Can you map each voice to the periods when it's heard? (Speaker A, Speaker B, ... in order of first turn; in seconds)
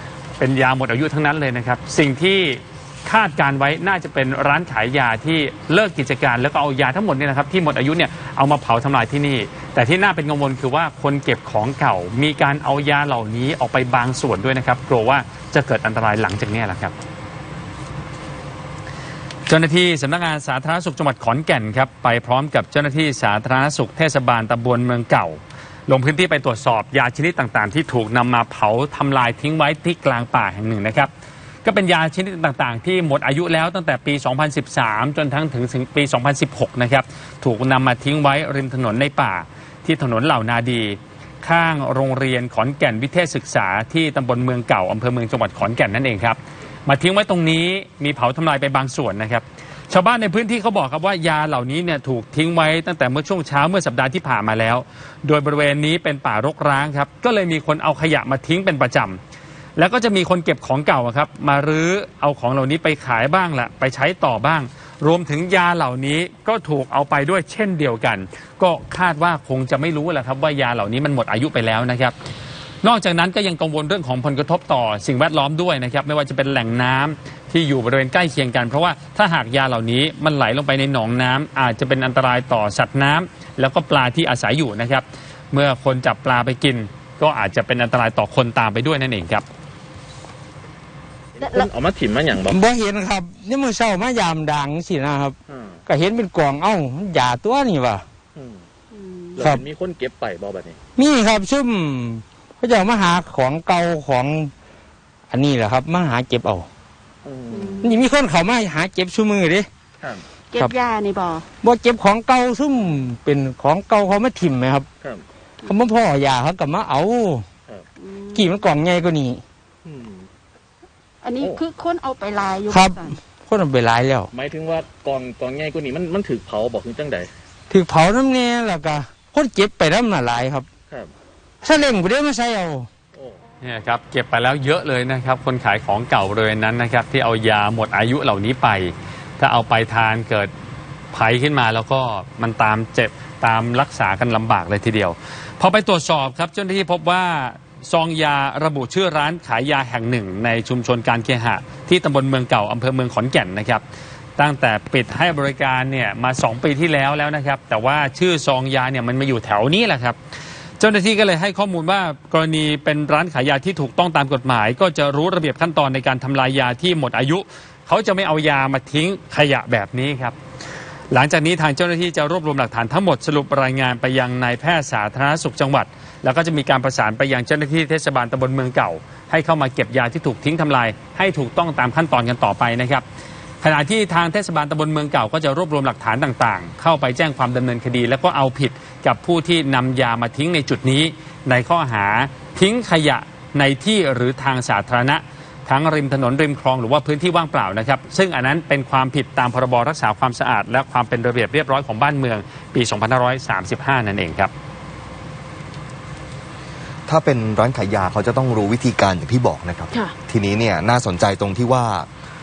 Speaker A: 0.4-17.0, 19.5-31.1, 31.6-59.2, 59.8-72.1, 72.8-89.5, 133.6-140.5, 141.1-153.8, 154.4-160.2, 160.8-170.4, 171.1-183.0, 183.6-204.5
Speaker B: 91.3-92.6, 95.5-95.8, 98.3-98.6, 99.3-100.8, 107.2-107.9, 119.8-120.3, 124.3-127.3, 133.1-133.4
Speaker C: 91.4-91.7, 98.9-99.5, 107.5-108.0, 110.5-111.5, 118.0-118.6, 121.2-123.2
Speaker D: 92.4-95.3, 95.9-98.0, 101.0-104.5, 105.3-106.7, 107.8-109.7, 111.6-114.9, 115.6-117.5, 118.3-119.4, 122.7-124.3, 127.7-130.7, 131.6-132.9
Speaker E: 207.1-212.1